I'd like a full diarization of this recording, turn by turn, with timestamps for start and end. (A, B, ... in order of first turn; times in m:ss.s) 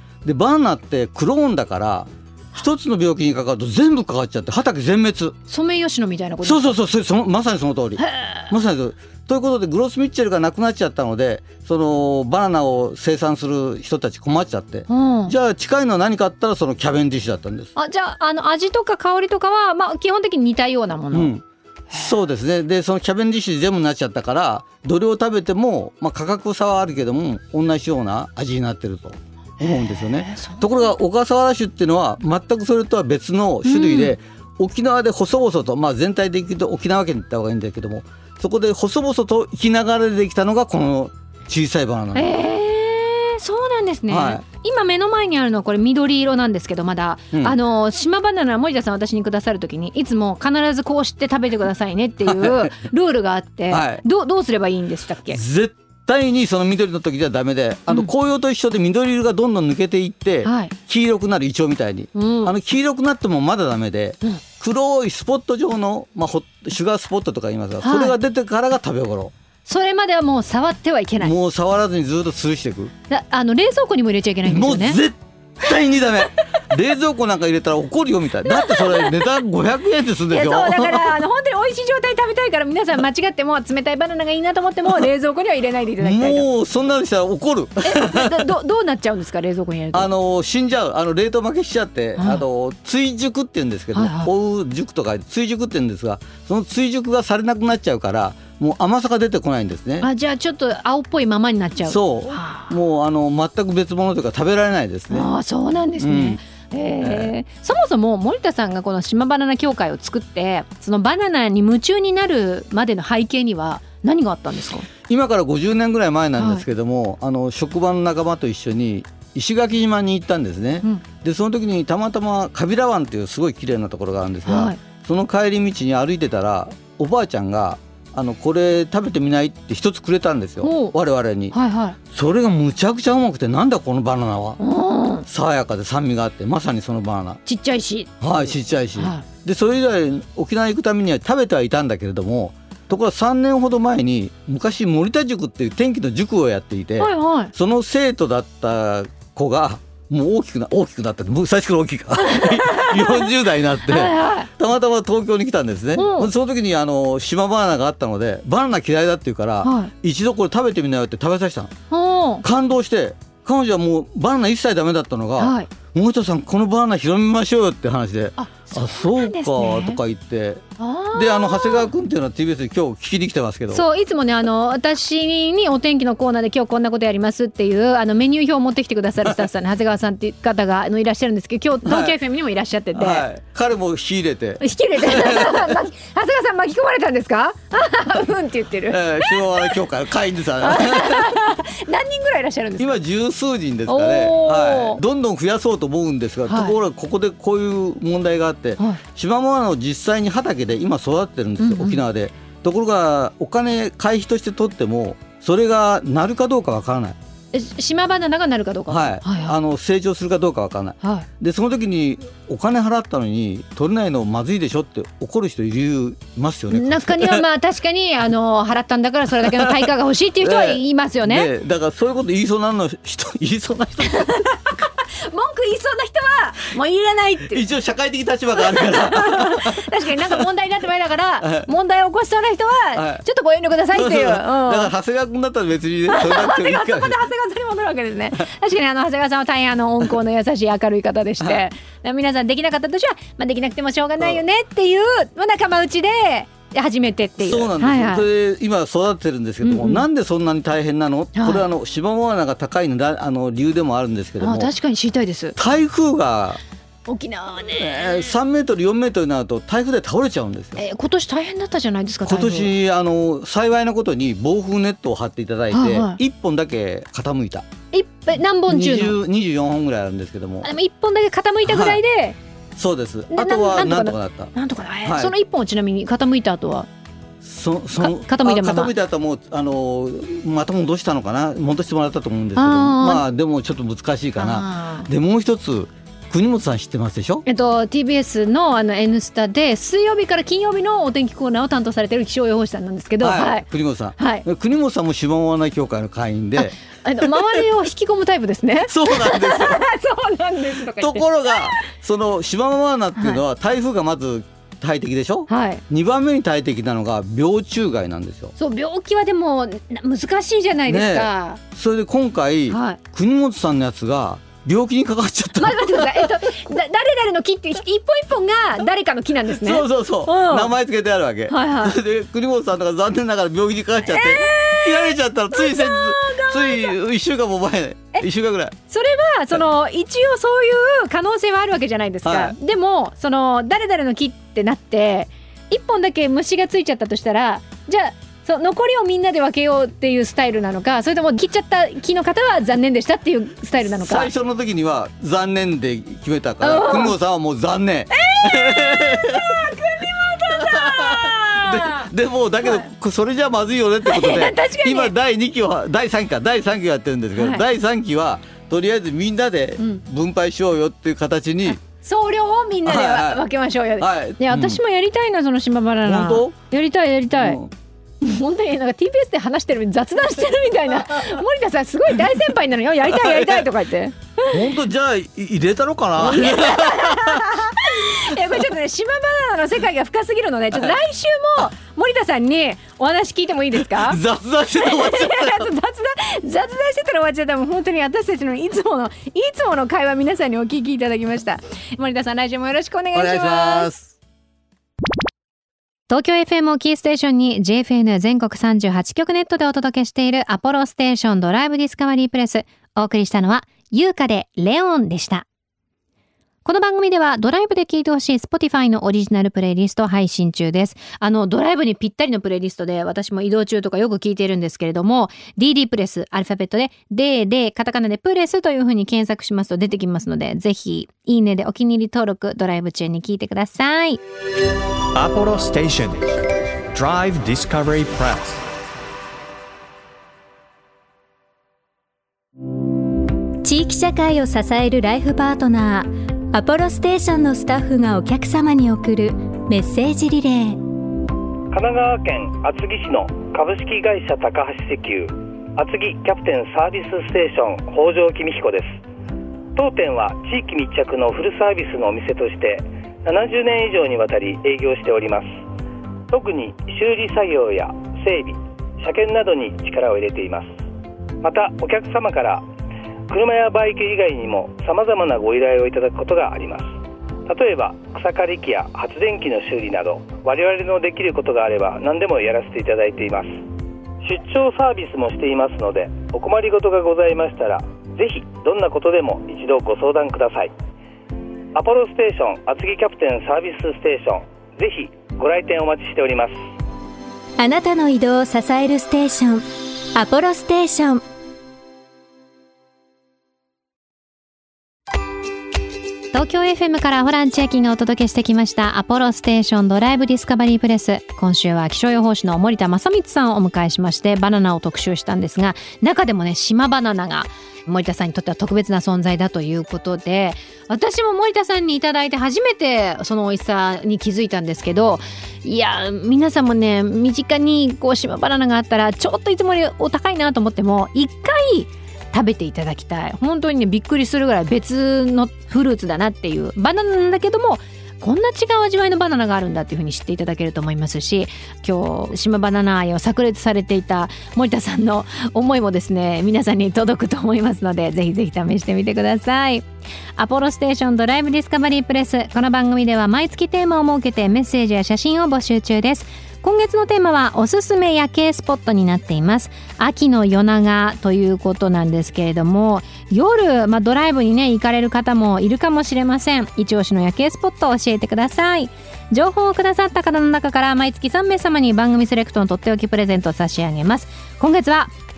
0:00.2-0:05.4 A
0:05.5-0:06.7 B
0:06.4-0:17.7 A
0:08.0-0:08.5 B
0:14.9-0:15.3 B
0:17.8-0:21.3 B
0:21.1-0:42.4 A
0:29.6-0:30.9 B
0:33.6-0:34.1 B
0:42.1-0:55.4 B
0:44.1-0:44.4 A
0:52.2-0:52.8 A
0:53.7-0:54.0 A
0:55.3-1:09.3 A
1:00.4-1:00.7 B
1:02.1-1:02.5 B
1:07.8-1:08.2 B
1:09.6-1:11.3 B
1:11.2-1:12.9 A
1:13.1-1:15.0 B
1:14.4-1:21.2 A
1:18.4-1:19.3 B
1:20.3-1:26.4 B
1:26.0-1:28.5 A
1:27.8-1:30.1 B
1:29.9-1:40.1 A
1:32.2-1:32.4 B
1:33.9-1:34.3 B
1:40.0-1:42.7 B
1:41.8-1:45.3 A
1:45.1-1:54.9 B
1:46.0-1:46.4 A
1:47.0-1:47.3 A
1:55.1-2:14.6 A
1:56.4-1:56.6 B
2:04.4-2:04.8 B
2:10.6-2:10.9 B
2:11.5-2:12.0 B
2:14.6-2:15.2 B
2:15.2-2:17.4 A
2:17.4-2:18.2 B
2:18.2-2:41.7 A
2:19.0-2:19.2 B
2:27.0-2:27.5 B
2:32.2-2:33.3 B
2:33.8-2:34.5 B
2:36.0-2:36.3 B
2:39.6-2:39.9 B
2:41.9-2:42.4 B
2:42.4-2:53.8 A
2:45.4-2:45.7 B
2:48.4-2:50.0 B
2:50.8-2:51.9 B
2:53.7-3:03.2 B
3:01.8-3:02.2 A
3:02.9-3:05.8 A
3:04.6-3:09.8 B
3:08.9-3:11.4 A
3:10.6-3:13.0 B
3:12.8-3:27.2 A
3:13.9-3:15.0 B
3:16.5-3:16.8 B
3:21.6-3:22.0 B
3:27.5-3:29.5 B
3:28.9-3:37.4 A
3:31.0-3:31.3 B
3:36.7-3:41.5 B
3:39.4-3:44.4 A
3:44.0-3:47.6 B
3:47.5-3:50.4 A
3:48.6-3:54.9 B
3:51.4-3:51.7 A
3:52.9-3:53.2 A
3:53.9-3:57.2 A
3:56.1-4:08.3 B
4:07.4-4:14.7 A
4:09.6-4:10.0 B
4:11.3-4:11.6 B
4:14.4-4:15.6 B
4:15.6-4:16.6 A
4:17.1-4:18.3 B
4:17.7-4:20.8 A
4:20.8-4:22.7 B
4:22.2-4:27.6 A
4:25.7-4:26.2 B
4:27.9-4:29.2 B
4:28.7-4:30.7 A
4:30.6-4:32.4 B
4:31.6-4:32.0 A
4:32.8-4:34.5 A
4:33.3-4:36.9 B
4:35.0-4:35.3 A
4:37.4-4:47.4 A
4:38.0-4:38.9 B
4:42.6-4:43.2 B
4:44.4-4:45.1 B
4:47.4-4:53.6 B
4:53.2-4:57.4 A
4:54.2-4:54.4 B
4:56.6-5:01.9 B
4:58.8-4:59.9 A
5:00.9-5:08.5 A
5:03.2-5:03.4 B
5:05.5-5:05.8 B
5:08.6-5:11.6 B
5:10.9-5:16.3 A
5:12.7-5:13.0 B
5:15.6-5:20.7 B
5:19.5-5:28.8 A
5:21.5-5:22.0 B
5:24.0-5:26.9 B
5:28.9-5:44.3 B
5:32.2-5:32.6 A
5:43.8-5:49.6 A
5:46.6-5:47.1 B
5:48.1-5:52.1 B
5:50.5-6:01.8 A
5:52.6-5:52.9 B
5:54.0-5:55.1 B
5:57.4-5:57.6 B
6:01.7-6:07.6 B
6:02.8-6:03.4 A
6:04.0-6:04.8 A
6:06.0-6:06.5 A
6:07.4-6:07.7 A
6:08.2-6:14.6 B
6:13.1-6:13.6 A
6:14.5-6:18.4 A
6:16.2-6:24.2 B
6:23.7-6:25.7 A
6:24.8-6:33.9 B
6:33.1-6:34.1 A
6:36.1-6:45.4 B
6:46.6-7:04.2 B
7:05.1-7:08.6 C
7:13.6-7:20.8 D
7:21.7-7:29.0 E
7:29.7-7:35.6 E
7:36.3-7:40.8 E
7:41.4-7:42.6 E
7:43.3-7:46.9 E
7:47.5-7:53.6 E
7:54.2-8:00.7 E
8:01.7-8:06.6 E
8:07.6-8:11.2 D
8:16.3-9:25.1 B